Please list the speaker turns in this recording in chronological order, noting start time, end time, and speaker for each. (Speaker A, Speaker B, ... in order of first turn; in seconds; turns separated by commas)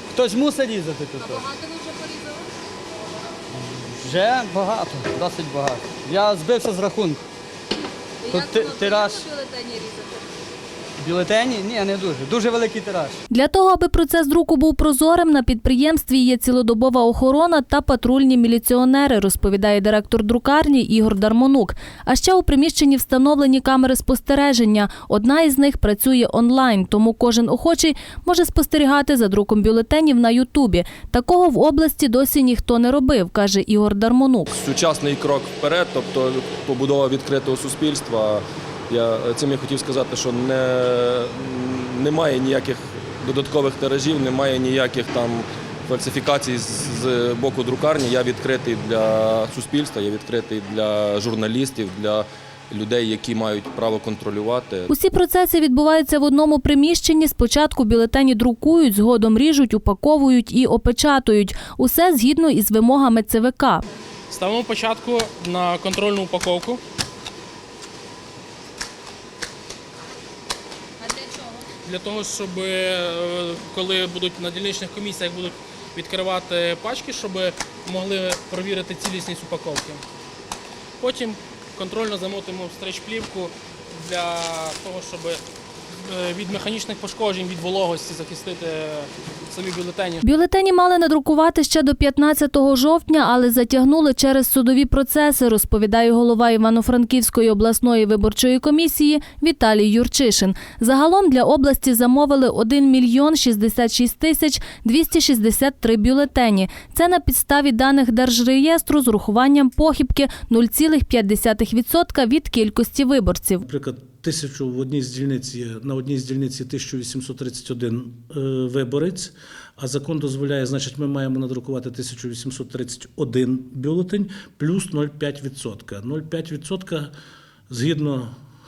Speaker A: 0.1-1.5, Speaker B: 1.5-2.4, Speaker A: 3.6-7.2, Speaker A: 8.3-9.3, Speaker B: 8.3-10.1, Speaker A: 11.0-13.2, Speaker B: 13.3-34.6, Speaker C: 34.6-54.9, Speaker B: 54.9-63.9, Speaker D: 64.3-66.8, Speaker D: 71.8-80.0, Speaker D: 81.0-85.4, Speaker D: 85.9-90.2, Speaker B: 90.2-113.6, Speaker E: 113.6-127.1, Speaker E: 127.7-128.3